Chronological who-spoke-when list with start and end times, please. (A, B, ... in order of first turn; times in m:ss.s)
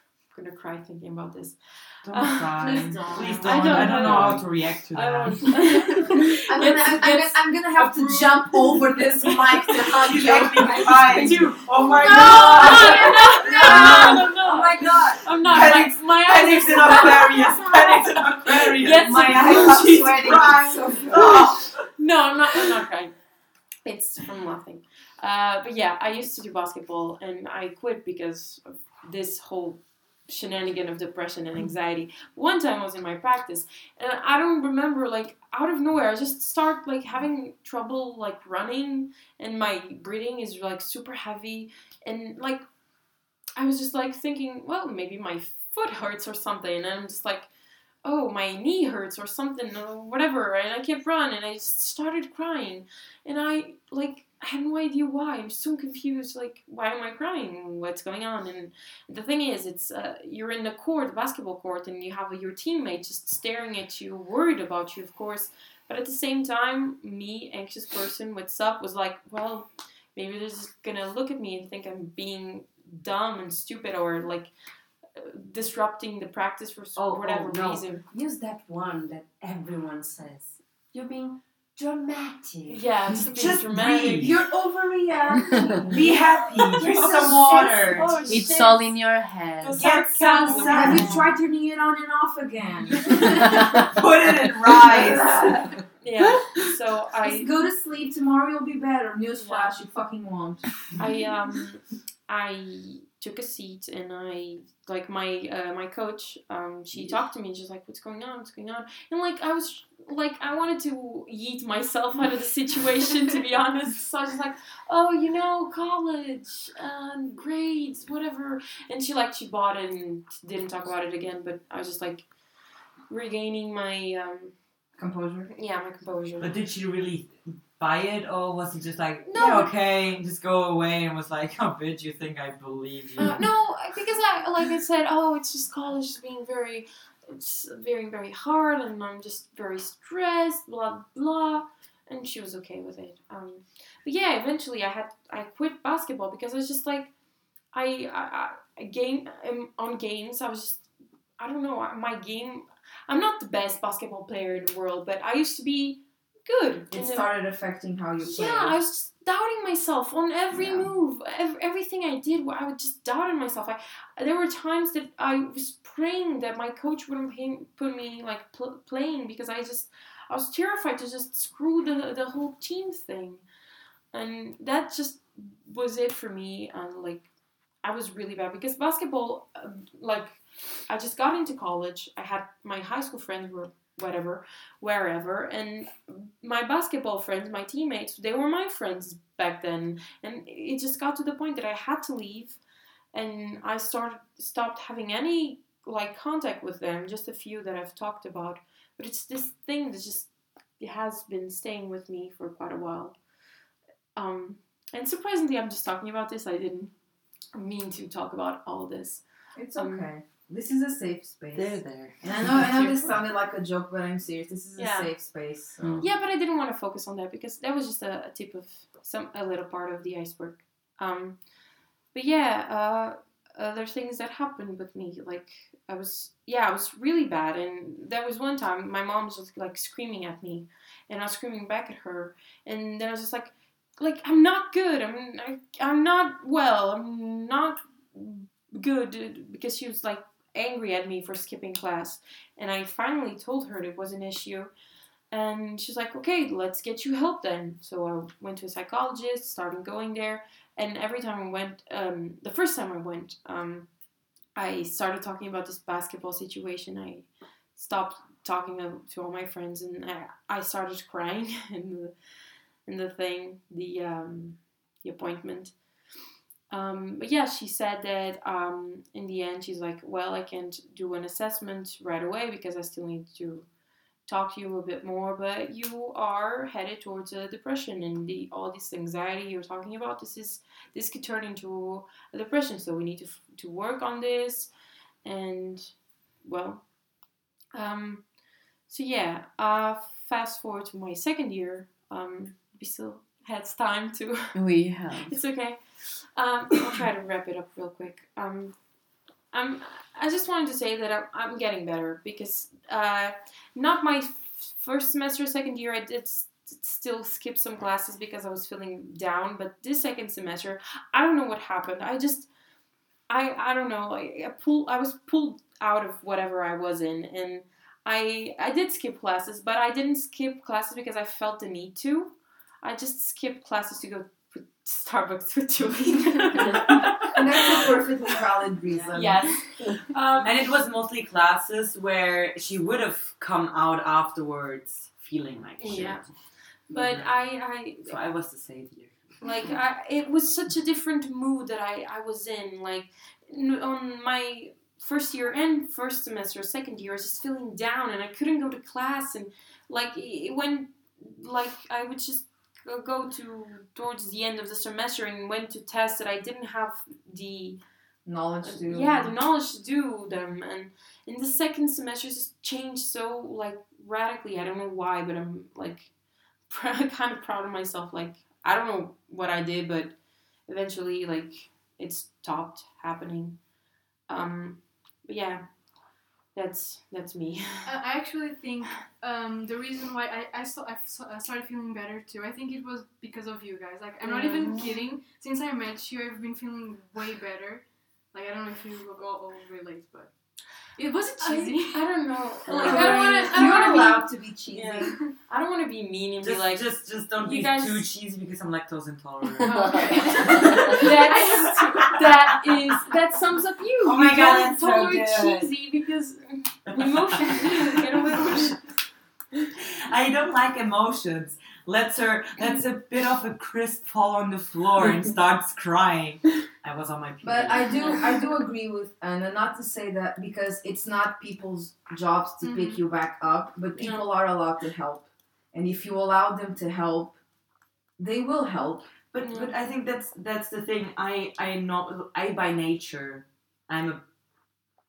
0:00.3-0:08.3 A
0:02.0-0:05.9 B
0:02.6-0:04.4 C
0:06.4-0:11.5 C
0:09.9-0:14.2 B
0:10.7-0:11.5 D
0:11.1-0:19.8 A
0:12.2-0:14.3 C
0:12.9-0:15.3 D
0:15.3-0:21.9 B
0:19.1-0:21.4 D
0:19.2-0:21.3 C
0:21.9-0:23.1 A
0:23.8-0:42.6 A
0:43.6-0:47.5 A
0:48.0-1:14.5 A
1:15.2-1:18.0 A
1:17.0-1:22.8 D
1:22.7-1:24.3 A
1:23.2-1:24.4 B
1:24.2-1:28.1 C
1:25.8-1:28.3 B
1:26.8-1:29.0 A
1:28.3-1:29.8 E
1:29.6-1:31.2 A
1:29.7-1:31.3 B
1:30.5-1:33.6 C
1:33.3-1:35.6 B
1:34.9-1:35.7 D
1:36.0-1:37.5 A
1:37.2-1:40.8 C
1:39.4-1:39.8 A
1:41.0-2:02.3 A
2:03.1-2:04.5 A
2:05.0-2:05.5 C
2:05.5-2:06.5 A
2:06.4-2:13.4 B
2:09.2-2:09.7 A
2:13.2-2:27.1 A
2:27.7-2:30.8 A
2:31.4-2:37.3 A
2:36.9-2:38.8 C
2:38.2-2:53.4 A
2:40.5-2:40.8 C
2:54.1-2:57.3 A
2:57.8-3:12.6 A
3:13.1-3:23.1 A
3:24.2-3:26.9 A
3:27.5-3:29.2 A
3:29.6-3:36.1 C
3:29.7-3:30.1 A
3:31.5-3:32.6 B
3:34.8-3:35.1 A
3:36.0-3:41.4 A
3:42.1-4:04.7 A
4:05.3-4:13.9 A
4:14.5-4:22.1 A
4:22.8-4:25.7 A
4:26.7-4:33.7 A
4:34.3-4:44.7 A
4:45.2-4:46.8 A
4:47.7-4:48.2 A
4:48.9-4:54.6 A
4:54.5-4:55.4 E
4:55.1-4:58.7 A
4:59.5-5:12.5 A
5:13.3-5:28.1 A
5:27.3-5:29.5 C
5:29.1-5:30.6 A
5:30.4-5:36.3 B
5:35.8-5:36.3 A
5:36.9-5:37.4 B
5:36.9-5:38.2 A
5:38.0-5:39.4 B
5:39.4-5:57.8 A
5:58.2-5:59.3 C
5:58.6-6:06.1 A
6:06.7-6:10.2 A
6:10.7-6:13.6 A
6:14.3-6:15.6 A
6:16.5-6:17.9 A
6:17.8-6:27.8 F
6:24.2-6:25.0 A
6:28.3-6:30.3 F
6:31.0-6:32.0 F
6:31.4-6:38.1 A
6:32.7-6:35.2 C
6:32.7-6:33.8 B
6:32.8-6:34.2 F
6:36.4-6:42.6 B
6:39.6-6:41.7 F
6:40.4-6:48.8 A
6:44.0-6:45.7 B
6:46.8-6:48.6 B
6:50.1-6:58.2 B
6:57.4-7:07.4 C
7:02.6-7:03.0 F
7:03.9-7:04.3 A
7:08.2-7:09.2 C
7:09.2-7:14.2 B
7:09.4-7:09.7 A